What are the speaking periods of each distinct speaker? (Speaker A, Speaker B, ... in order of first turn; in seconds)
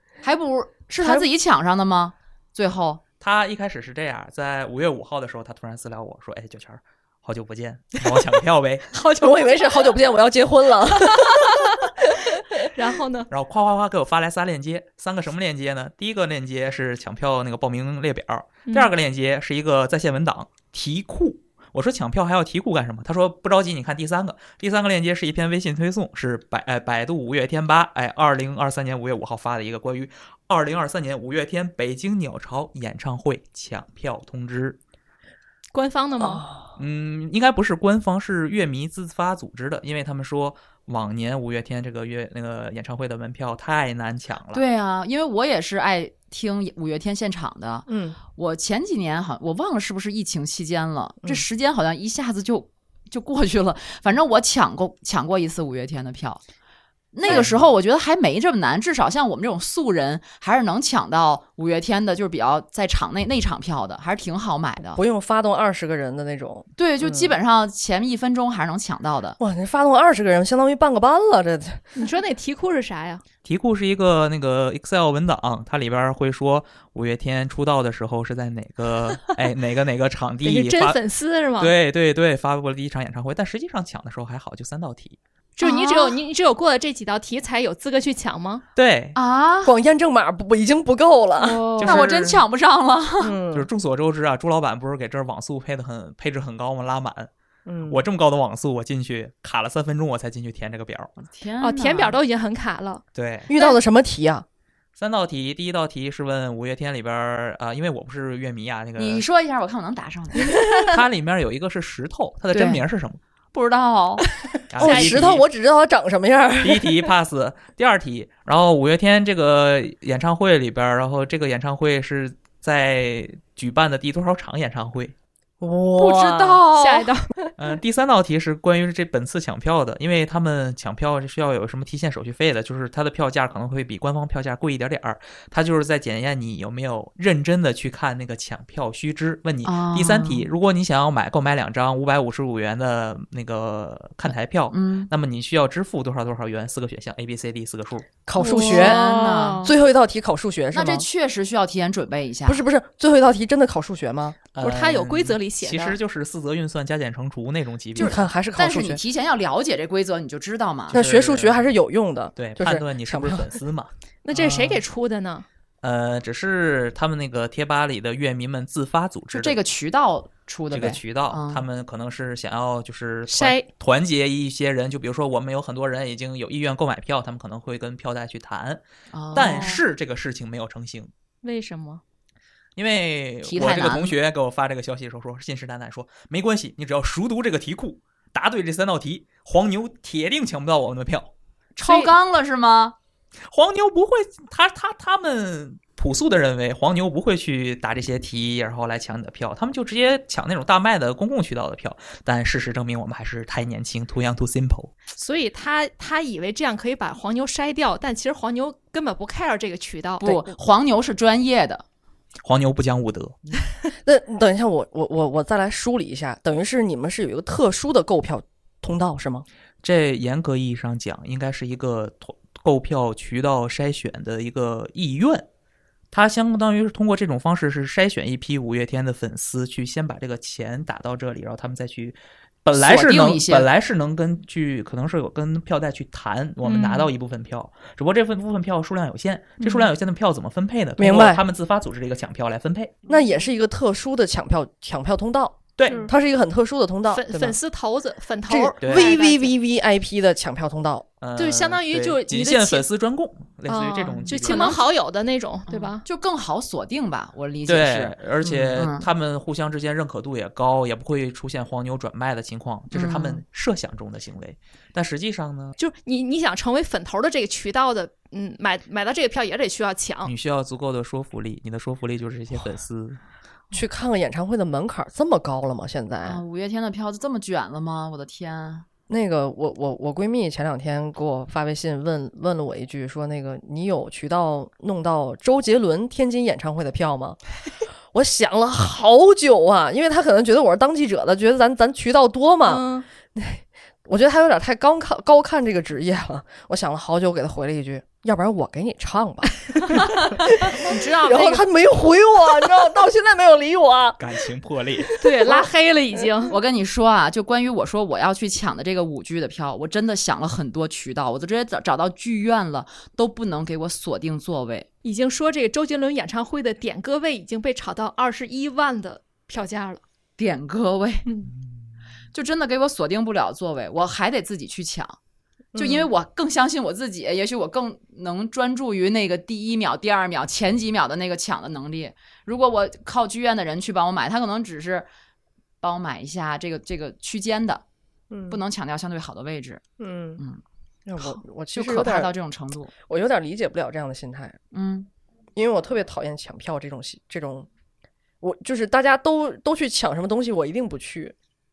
Speaker A: 0.2-3.0, 44.5-56.4, 57.1-65.0, 66.8-69.4, 85.6-86.2, 89.1-89.7, 91.4-93.3, 101.2-102.2, 109.0-110.6, 113.5-114.2, 126.0-127.1, 139.6-140.4, 144.7-145.1, 148.4-149.7, 150.7-152.6, 157.9-161.0, 169.3-171.6, 179.1-179.8, 183.4-184.1, 191.8-192.9, 210.2-211.8, 232.7-233.7, 254.4-254.8, 255.7-259.1, 262.9-263.4, 276.2-278.9, 306.5-314.9, 320.4-321.3, 322.3-325.2, 325.8-335.1, 335.8-337.8, 338.5-339.8, 341.2-342.9, 344.7-345.1
Speaker B: 1.0-1.3, 9.2-12.6, 36.2-36.7, 47.9-48.2, 57.2-57.6, 64.9-67.3, 69.4-71.8, 89.6-92.1, 93.2-93.7, 97.7-98.0, 103.5-104.4, 112.5-112.8, 114.8-117.1, 125.6-126.6, 148.2-149.1, 149.6-151.1, 152.4-154.4, 158.0-159.0, 160.9-163.4, 164.3-164.8, 214.0-219.4, 241.0-241.4, 243.1-247.6, 248.5-251.1, 273.7-276.4, 279.1-287.4, 288.1-304.2, 305.2-305.7, 325.7-326.1, 338.3-338.6, 340.0-340.4, 341.1-342.3, 343.1-344.6, 345.6-347.7, 348.4-351.3
Speaker C: 3.2-8.9, 13.3-34.8, 36.8-44.6, 73.4-81.0, 81.6-85.2, 88.8-89.2, 91.8-92.4, 93.5-97.3, 97.9-101.1, 103.1-103.5, 105.0-109.2, 110.8-113.2, 114.7-115.4, 116.6-125.1, 127.6-148.1, 154.5-158.2, 160.9-161.7, 162.3-163.9, 165.8-169.6, 170.7-178.8, 179.3-181.1, 182.8-191.3, 193.5-204.9, 212.4-213.3, 219.8-225.4, 226.1-243.0, 245.8-246.1, 248.8-249.2, 251.2-254.8, 257.7-265.8, 270.2-273.2, 304.2-305.1
Speaker D: 8.9-9.9, 12.7-13.3, 35.7-36.4, 71.9-73.2, 80.4-81.7, 85.6-88.6, 101.6-103.0, 114.8-115.2, 126.7-127.2, 148.4-149.7, 154.6-156.0, 164.2-165.4, 173.3-173.6, 179.4-179.6, 181.4-182.0, 191.8-192.1, 205.1-210.2, 236.6-237.1, 239.6-239.9, 245.9-246.1, 247.1-249.5, 251.4-252.8, 253.7-256.0, 265.8-270.3, 292.6-293.0, 299.9-301.6, 305.2-306.6, 315.0-320.0, 321.2-321.5